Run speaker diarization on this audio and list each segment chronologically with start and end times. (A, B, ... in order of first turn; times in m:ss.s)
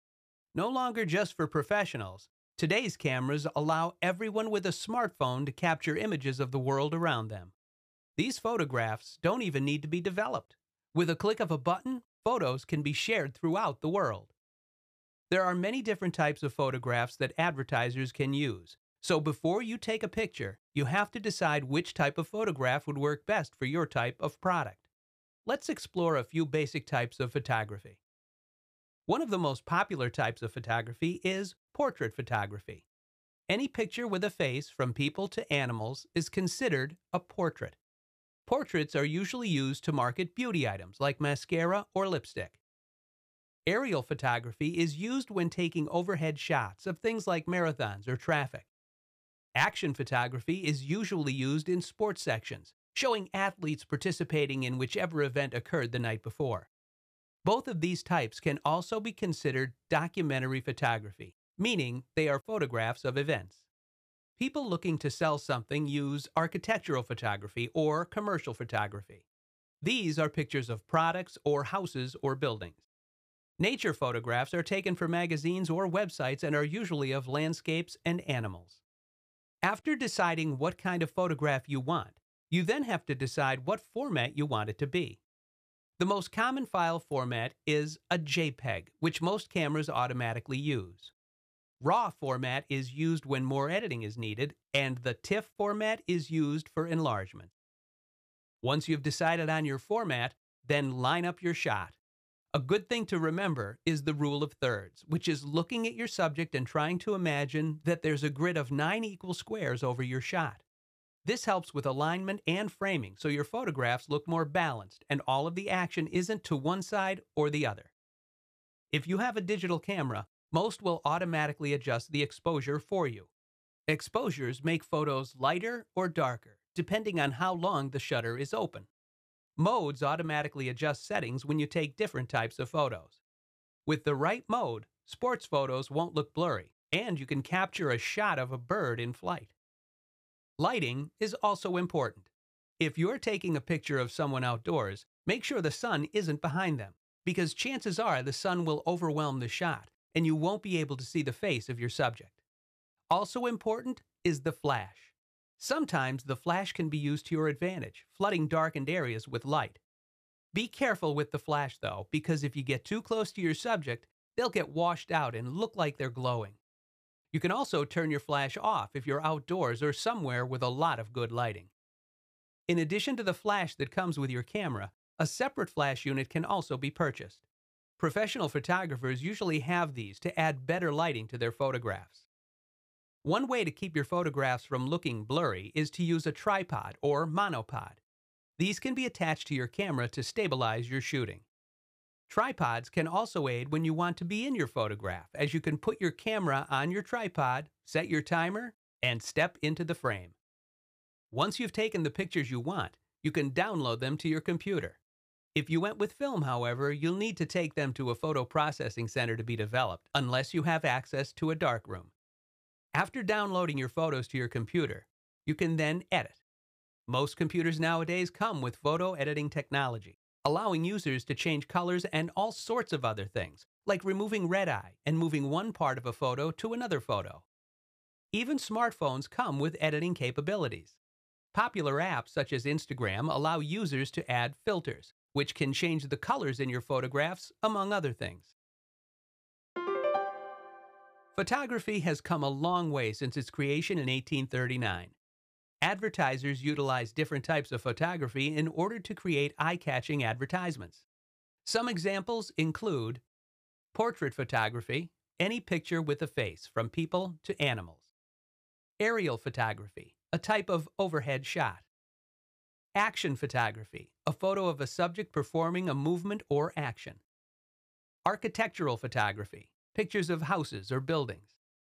0:00.5-0:07.5 A
0:08.2-0:14.3 A
0:15.3-0:24.8 A
0:25.4-0:28.0 A
0:29.1-0:32.8 A
0:33.5-0:37.8 A
0:38.4-0:42.6 A
0:43.7-0:48.7 A
0:49.6-0:56.7 A
0:57.4-1:03.6 A
1:04.4-1:09.2 A
1:09.8-1:12.8 A
1:13.6-1:18.8 A
1:19.6-1:25.2 A
1:26.0-1:31.1 A
1:31.8-1:37.5 A
1:38.6-1:42.0 A
1:42.5-1:50.6 A
1:51.2-1:57.9 A
1:58.9-2:03.3 A
2:03.9-2:08.9 A
2:09.6-2:13.2 A
2:13.8-2:19.5 A
2:20.6-2:32.4 A
2:33.1-2:39.8 A
2:40.5-2:46.6 A
2:47.3-2:51.7 A
2:52.7-2:57.4 A
2:58.0-3:02.3 A
3:03.2-3:08.0 A
3:08.6-3:11.4 A
3:12.3-3:20.3 A
3:21.3-3:25.0 A
3:25.5-3:32.1 A
3:32.9-3:36.4 A
3:37.1-3:47.4 A
3:48.3-3:51.0 A
3:51.5-3:58.5 A
4:01.3-4:05.2 A
4:05.8-4:11.0 A
4:11.6-4:13.2 A
4:13.9-4:18.1 A
4:19.0-4:21.8 A
4:22.9-4:27.2 A
4:28.2-4:31.6 A